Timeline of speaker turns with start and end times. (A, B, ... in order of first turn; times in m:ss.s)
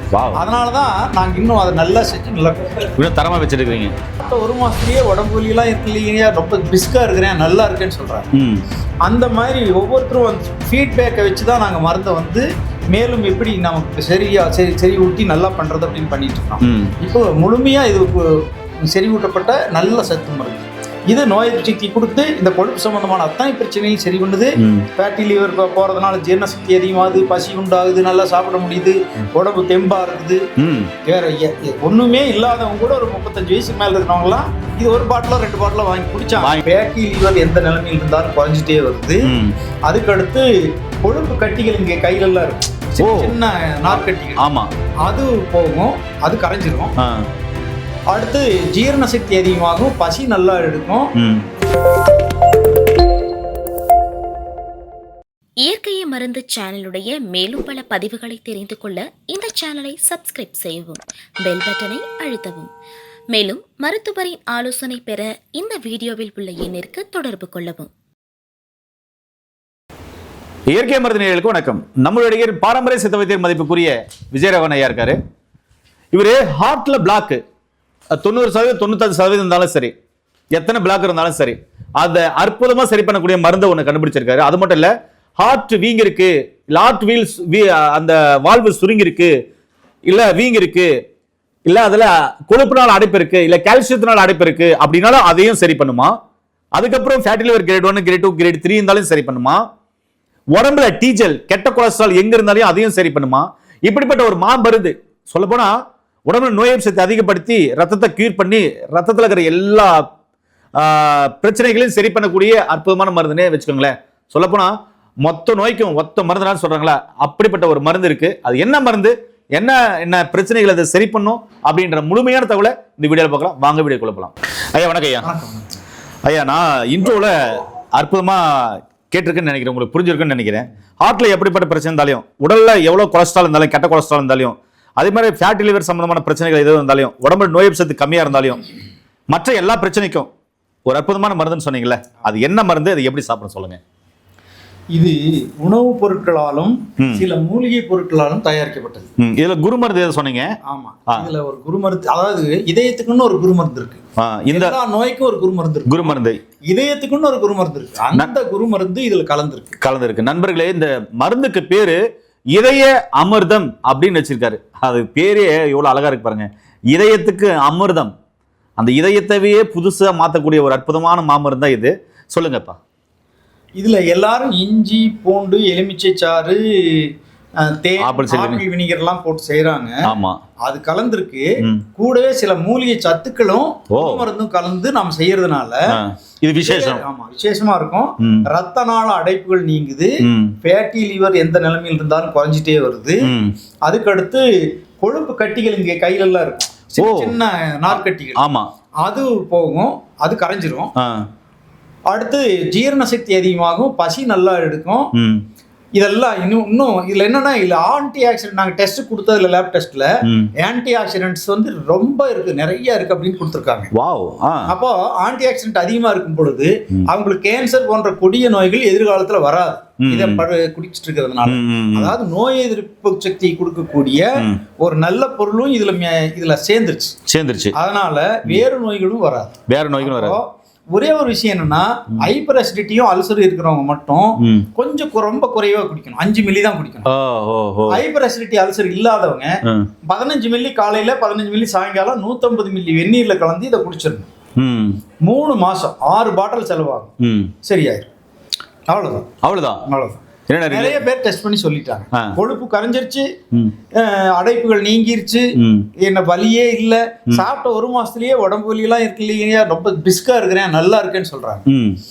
0:00.1-0:00.4 A
0:00.3-0:02.9 B
0:03.0-0:03.9 A
0:04.2-0:08.3 B
0:08.3-0:08.6 A
0:09.0-0:30.4 B
0:16.6-0:16.9 A
0:24.6-0:24.9 A
0:30.6-0:30.9 A
0:31.0-0:39.3 B
0:36.4-0:36.6 A
0:39.2-0:39.5 A
0:39.9-0:40.5 B
0:41.0-0:44.5 B
0:43.0-0:43.4 A
0:44.4-0:44.7 A
0:45.0-0:46.9 B
0:47.0-0:47.2 A
0:48.1-0:51.1 B
0:51.2-0:51.4 A
0:55.6-1:02.7 C
1:03.3-1:07.9 C
1:10.7-1:15.2 A
1:16.1-1:17.4 A
1:18.2-1:19.9 A
1:20.5-1:29.3 A
1:30.0-1:30.9 A
1:31.6-1:36.1 A
1:36.7-1:39.6 A
1:40.5-1:45.7 A
1:46.2-1:50.0 A
1:50.8-2:05.3 A
2:05.2-2:05.6 B
2:06.2-2:18.6 A
2:19.3-2:20.3 A
2:20.8-2:23.8 A
2:24.9-2:29.1 B
2:27.0-2:27.3 A
2:29.2-2:30.5 A
2:30.6-2:39.8 B
2:34.2-2:34.8 A
2:35.8-2:36.4 A
2:39.8-2:42.0 A
2:42.5-2:48.1 A
2:48.8-2:52.8 A
2:53.8-2:57.1 B
2:57.6-3:00.1 B
2:58.0-2:58.6 A
3:00.0-3:00.4 A
3:00.6-3:06.0 B
3:03.9-3:04.3 A
3:05.9-3:07.0 A
3:06.6-3:10.1 B
3:08.2-3:08.4 A
3:10.2-3:10.6 A
3:10.6-3:13.3 B
3:13.2-3:13.5 A
3:13.9-3:14.4 B
3:15.0-3:18.4 B
3:17.0-3:17.4 A
3:17.9-3:18.7 A
3:19.0-3:20.9 B
3:22.1-3:25.1 B
3:25.1-3:25.4 A
3:26.0-3:33.9 B
3:30.2-3:30.5 A
3:33.9-3:34.7 A
3:34.7-3:47.1 B
3:40.0-3:40.4 A
3:41.4-3:42.2 A
3:47.3-3:47.7 A
3:47.7-3:57.0 B
3:49.7-3:50.4 A
3:54.4-3:54.7 A
3:57.0-3:58.0 A
3:57.9-4:04.3 B
4:04.6-4:05.0 A
4:05.2-4:07.1 B
4:07.2-4:07.5 A
4:07.6-4:08.1 B
4:08.9-4:09.3 B
4:09.4-4:09.8 A
4:09.8-4:13.3 B
4:10.5-4:11.0 A
4:14.0-4:15.5 B
4:15.6-4:15.9 A
4:16.0-4:21.6 B
4:21.7-4:22.0 A